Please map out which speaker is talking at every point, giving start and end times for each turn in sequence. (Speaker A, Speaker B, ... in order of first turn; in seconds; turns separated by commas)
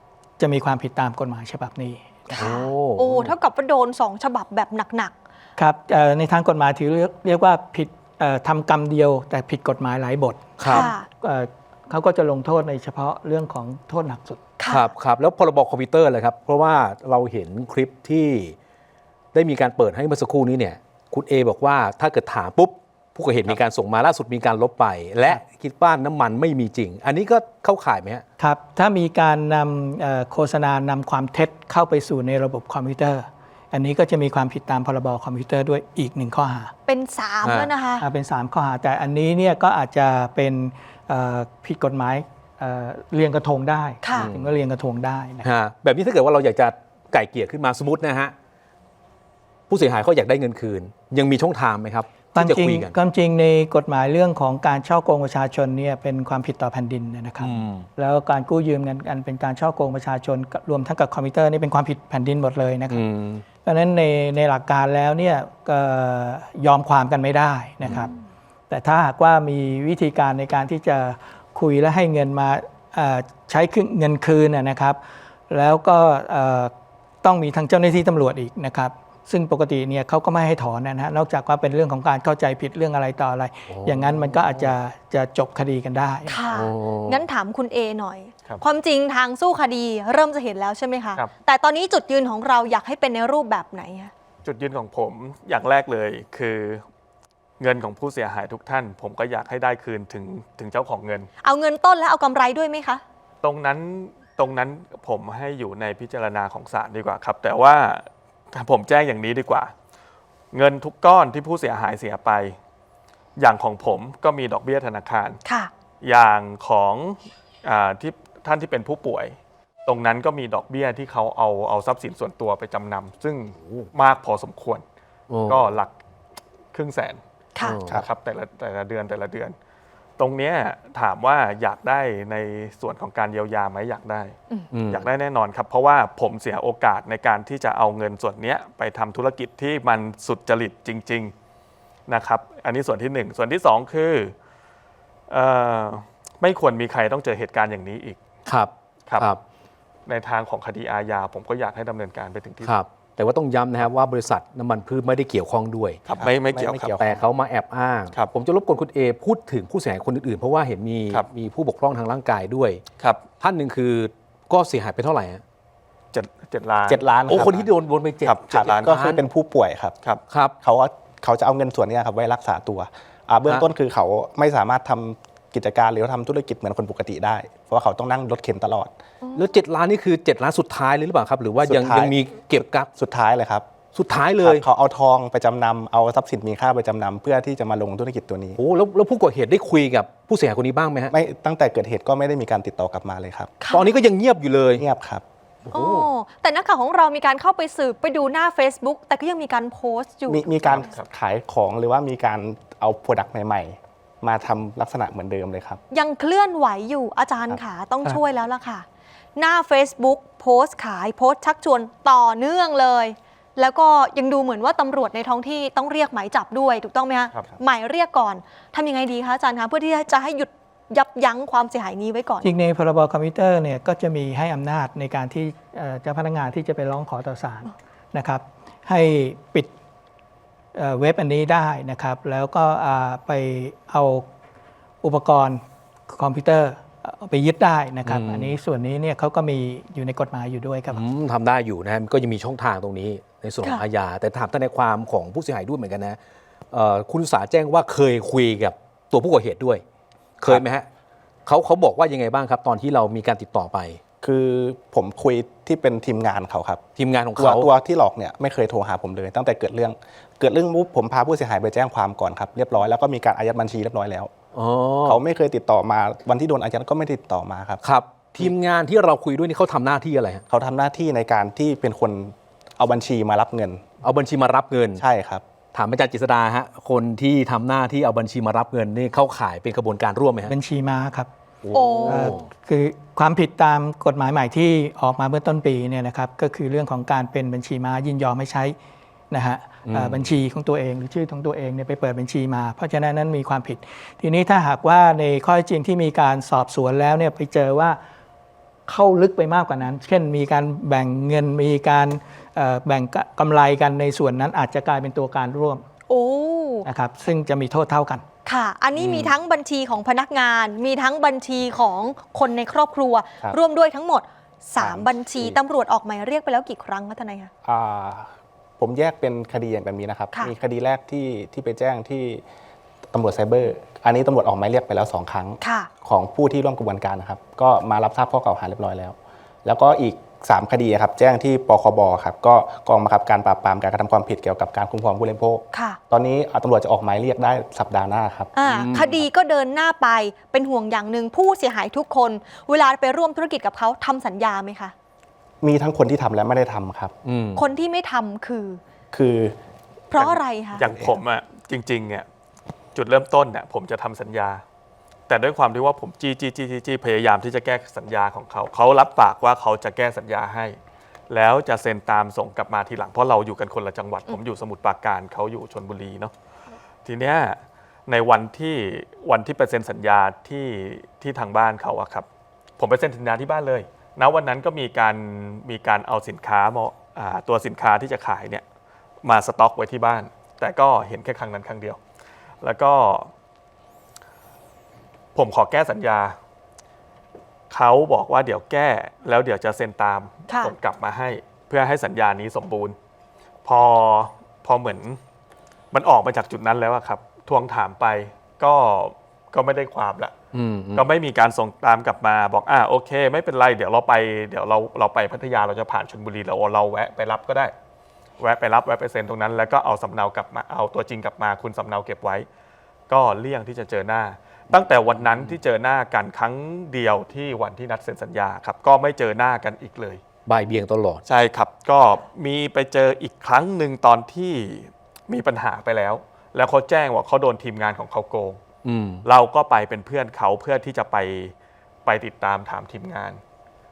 Speaker A: 0.4-2.5, Speaker B: 2.3-5.1, Speaker C: 2.4-3.3, Speaker A: 5.6-14.4, Speaker C: 10.6-10.9, Speaker B: 10.7-11.1, Speaker B: 14.6-14.9, Speaker C: 14.7-18.6, Speaker C: 19.3-28.2, Speaker A: 28.4-36.7, Speaker B: 36.9-38.0, Speaker C: 37.4-37.7, Speaker A: 38.0-45.5, Speaker B: 44.0-44.3, Speaker C: 44.1-44.5, Speaker C: 45.4-48.3, Speaker C: 49.7-52.9, Speaker A: 52.3-63.0, Speaker C: 57.4-57.9, Speaker C: 62.9-63.4, Speaker A: 63.6-68.1, Speaker C: 67.8-68.1, Speaker A: 68.7-76.7, Speaker A: 77.2-86.4, Speaker C: 83.7-84.7, Speaker B: 86.3-94.1, Speaker C: 86.5-87.2, Speaker D: 94.5-96.8, Speaker D: 97.6-101.3, Speaker B: 101.4-103.0, Speaker D: 103.4-109.7, Speaker D: 110.5-112.6, Speaker D: 113.4-115.4, Speaker B: 115.5-115.7, Speaker D: 116.0-124.8, Speaker C: 125.3-125.6, Speaker D: 125.5-125.9, Speaker D: 126.7-127.2, Speaker C: 127.6-127.9, Speaker D: 127.9-129.6, Speaker D: 130.2-134.4, Speaker C: 134.7-135.1, Speaker D: 134.9-141.3, Speaker D: 142.1-144.3, Speaker D: 145.3-148.2, Speaker C: 148.5-149.4, Speaker D: 150.1-152.7, Speaker C: 152.6-156.0, Speaker D: 156.1-156.9, Speaker E: 156.2-157.2, Speaker C: 157.0-162.8, Speaker D: 163.0-163.2, Speaker C: 163.4-165.4, Speaker D: 166.1-167.7, Speaker E: 166.9-167.7, Speaker C: 167.3-169.0, Speaker D: 168.2-169.2, Speaker E: 168.5-170.0, Speaker E: 170.6-178.9, Speaker B: 179.2-179.5, Speaker C: 179.3-182.9, Speaker E: 181.6-183.7, Speaker C: 183.9-184.7, Speaker E: 184.4-188.6, Speaker C: 188.6-191.1, Speaker E: 191.1-193.5, Speaker B: 193.6-194.0, Speaker C: 193.7-194.8, Speaker E: 194.8-195.2, Speaker C: 195.7-196.1, Speaker B: 195.7-200.9, Speaker E: 200.3-205.8, Speaker D: 200.7-201.1, Speaker B: 205.9-222.5, Speaker A: 222.4-229.7, Speaker A: 230.8-234.3, Speaker A: 235.0-241.0, Speaker C: 238.1-238.6, Speaker C: 240.9-246.2, Speaker C: 246.7-249.8, Speaker C: 250.4-250.9, Speaker C: 251.5-254.0, Speaker E: 254.2-256.8, Speaker C: 257.0-257.7, Speaker E: 257.4-264.3, Speaker C: 264.5-265.2, Speaker E: 265.1-267.8, Speaker C: 267.8-270.4, Speaker E: 270.5-273.9, Speaker C: 274.0-275.0, Speaker E: 275.0-275.4, Speaker C: 275.7-280.5, Speaker A: 280.4-281.3, Speaker C: 281.6-282.5, Speaker B: 281.7-282.4, Speaker A: 282.1-288.8, Speaker A: 289.3-298.0, Speaker C: 289.9-290.3, Speaker A: 298.9-305.9, Speaker B: 306.1-306.9, Speaker A: 306.9-308.2, Speaker B: 308.5-317.5, Speaker E: 309.0-309.3, Speaker E: 314.8-315.6, Speaker E: 317.6-322.4, Speaker E: 323.1-339.0, Speaker B: 325.6-325.9, Speaker B: 335.7-336.0, Speaker B: 338.6-344.9, Speaker C: 338.6-339.2, Speaker E: 345.6-347.1, Speaker C: 347.2-347.6, Speaker B: 347.6-348.8, Speaker E: 349.1-349.6, Speaker B: 350.1-350.8, Speaker E: 350.2-351.1, Speaker D: 350.8-352.3, Speaker D: 352.9-354.6, Speaker D: 355.3-360.8, Speaker D: 361.3-366.3, Speaker D: 367.1-372.3, Speaker D: 372.8-378.6, Speaker D: 379.2-382.0, Speaker D: 382.6-383.3, Speaker D: 385.4-386.4, Speaker D: 387.7-393.0, Speaker B: 390.5-390.8, Speaker D: 393.6-395.2, Speaker D: 395.9-400.3, Speaker C: 400.5-401.1, Speaker D: 400.9-407.7, Speaker D: 408.4-412.5, Speaker D: 413.1-420.2, Speaker C: 415.1-415.6, Speaker C: 420.5-421.2, Speaker D: 421.3-428.6, Speaker C: 428.8-429.3, Speaker D: 429.2-431.5, Speaker D: 432.1-433.4